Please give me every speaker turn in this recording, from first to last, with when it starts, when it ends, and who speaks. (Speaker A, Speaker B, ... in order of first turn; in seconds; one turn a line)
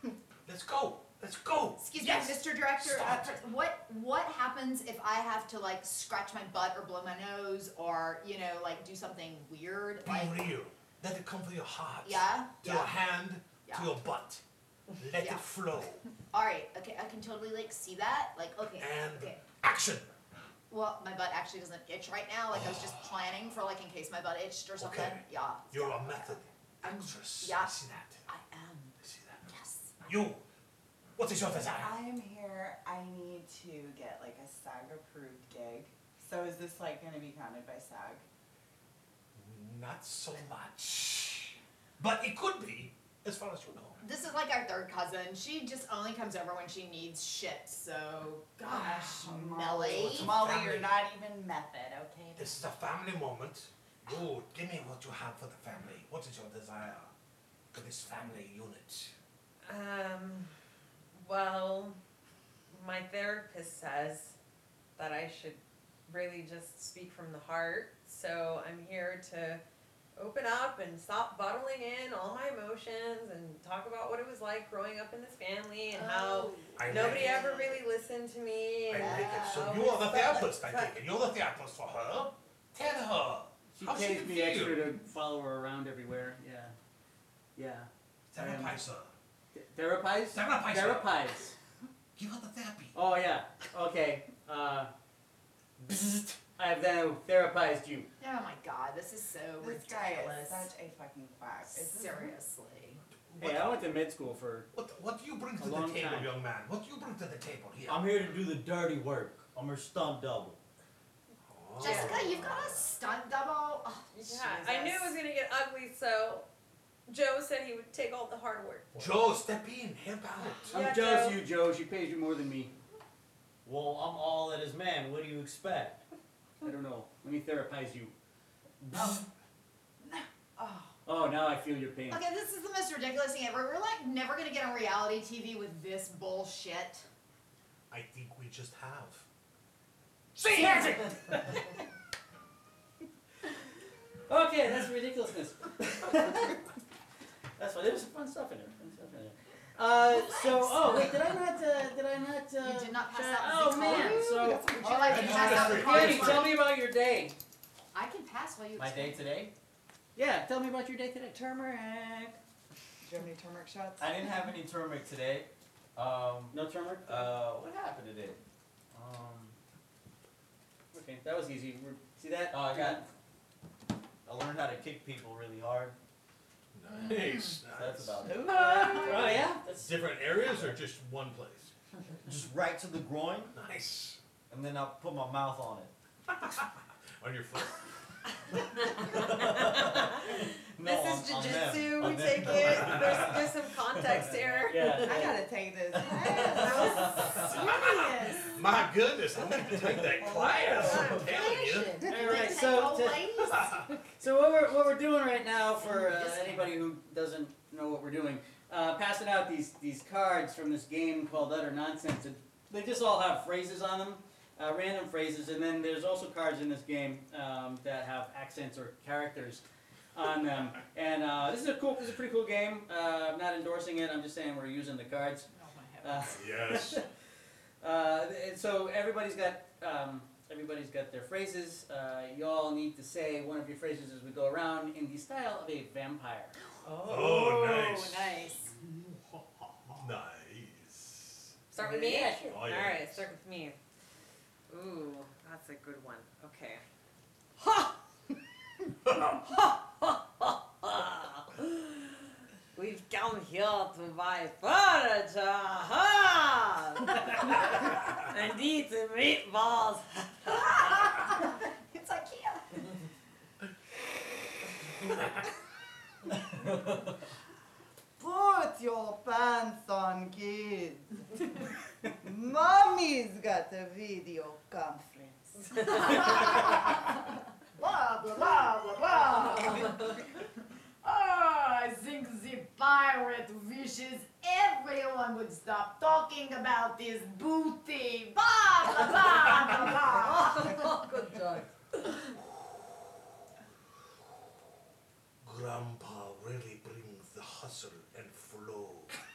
Speaker A: 0.5-3.3
Speaker B: 1.8-10.4
Speaker A: 10.0-14.4
Speaker B: 12.0-13.0
Speaker B: 13.6-13.9
Speaker A: 15.0-16.0
Speaker B: 15.1-15.4
Speaker B: 16.2-19.4
Speaker A: 18.8-20.1
Speaker B: 20.7-30.1
Speaker A: 22.5-22.9
Speaker A: 24.8-28.2
Speaker A: 29.0-29.5
Speaker A: 30.0-30.4
Speaker A: 31.2-32.0
Speaker C: 31.8-38.2
Speaker A: 39.4-44.0
Speaker B: 44.0-50.5
Speaker C: 48.6-52.6
Speaker A: 50.0-50.9
Speaker A: 52.4-57.1
Speaker A: 57.7-59.1
Speaker D: 59.6-60.5
Speaker D: 61.1-62.0
Speaker D: 62.7-64.4
Speaker D: 65.0-69.6
Speaker D: 70.2-81.0
Speaker C: 76.0-77.7
Speaker B: 76.6-77.8
Speaker A: 76.8-77.4
Speaker A: 78.9-85.0
Speaker C: 79.0-79.9
Speaker E: 83.7-86.7
Speaker E: 87.5-88.8
Speaker A: 88.3-89.1
Speaker E: 89.5-91.5
Speaker A: 90.3-91.2
Speaker A: 92.2-92.9
Speaker E: 92.9-94.9
Speaker E: 95.8-98.1
Speaker B: 98.2-100.7
Speaker C: 99.6-102.3
Speaker B: 101.7-103.0
Speaker A: 103.3-103.8
Speaker E: 103.4-104.7
Speaker A: 104.7-108.2
Speaker E: 105.6-106.3
Speaker F: 107.9-110.6
Speaker A: 111.5-112.8
Speaker B: 111.8-115.1
Speaker D: 111.8-112.2
Speaker D: 114.1-116.5
Speaker D: 117.1-119.2
Speaker A: 118.9-120.8
Speaker D: 120.6-121.4
Speaker E: 120.7-122.7
Speaker F: 123.6-126.0
Speaker E: 126.6-128.1
Speaker E: 128.8-129.2
Speaker C: 130.0-130.9
Speaker E: 131.0-132.2
Speaker B: 132.1-137.1
Speaker A: 137.9-139.2
Speaker A: 140.4-141.0
Speaker B: 140.4-141.1
Speaker E: 140.5-141.6
Speaker E: 144.3-146.6
Speaker E: 147.6-157.4
Speaker B: 150.3-151.1
Speaker B: 152.6-156.6
Speaker C: 153.7-155.8
Speaker A: 155.0-156.5
Speaker B: 157.9-159.2
Speaker E: 158.8-159.5
Speaker E: 160.1-161.4
Speaker C: 161.3-162.4
Speaker C: 163.0-164.2
Speaker F: 164.0-168.4
Speaker E: 166.5-167.1
Speaker E: 168.9-169.5
Speaker E: 170.9-173.1
Speaker F: 172.5-173.0
Speaker F: 174.2-175.9
Speaker A: 176.7-178.3
Speaker B: 176.9-177.5
Speaker F: 177.7-178.5
Speaker C: 178.2-179.4
Speaker E: 178.4-179.9
Speaker A: 179.7-181.7
Speaker F: 182.2-183.6
Speaker A: 183.5-184.2
Speaker F: 184.5-185.9
Speaker A: 186.4-186.7
Speaker A: 187.2-187.8
Speaker F: 188.9-194.0
Speaker D: 189.1-195.4
Speaker A: 192.4-193.4
Speaker E: 194.1-195.4
Speaker C: 194.8-198.3
Speaker D: 196.4-197.5
Speaker E: 196.7-197.2
Speaker A: 197.3-202.0
Speaker B: 197.4-198.4
Speaker C: 200.1-201.2
Speaker D: 200.6-201.9
Speaker B: 202.0-203.8
Speaker E: 202.0-203.5
Speaker A: 203.5-203.8
Speaker E: 204.2-219.6
Speaker B: 205.8-206.7
Speaker E: 220.1-225.5
Speaker B: 225.5-226.3
Speaker E: 226.0-227.1
Speaker A: 226.3-227.0
Speaker E: 227.8-236.5
Speaker B: 236.9-238.7
Speaker A: 237.0-238.4
Speaker A: 239.9-241.5
Speaker D: 241.7-243.8
Speaker E: 241.8-242.6
Speaker A: 242.5-243.3
Speaker D: 244.7-246.8
Speaker D: 247.6-247.9
Speaker A: 249.0-249.4
Speaker D: 249.3-260.7
Speaker B: 260.5-262.9
Speaker C: 268.2-271.2
Speaker C: 272.2-276.2
Speaker B: 275.9-277.0
Speaker B: 277.7-280.2
Speaker B: 281.0-290.8
Speaker D: 289.7-292.3
Speaker A: 295.4-299.1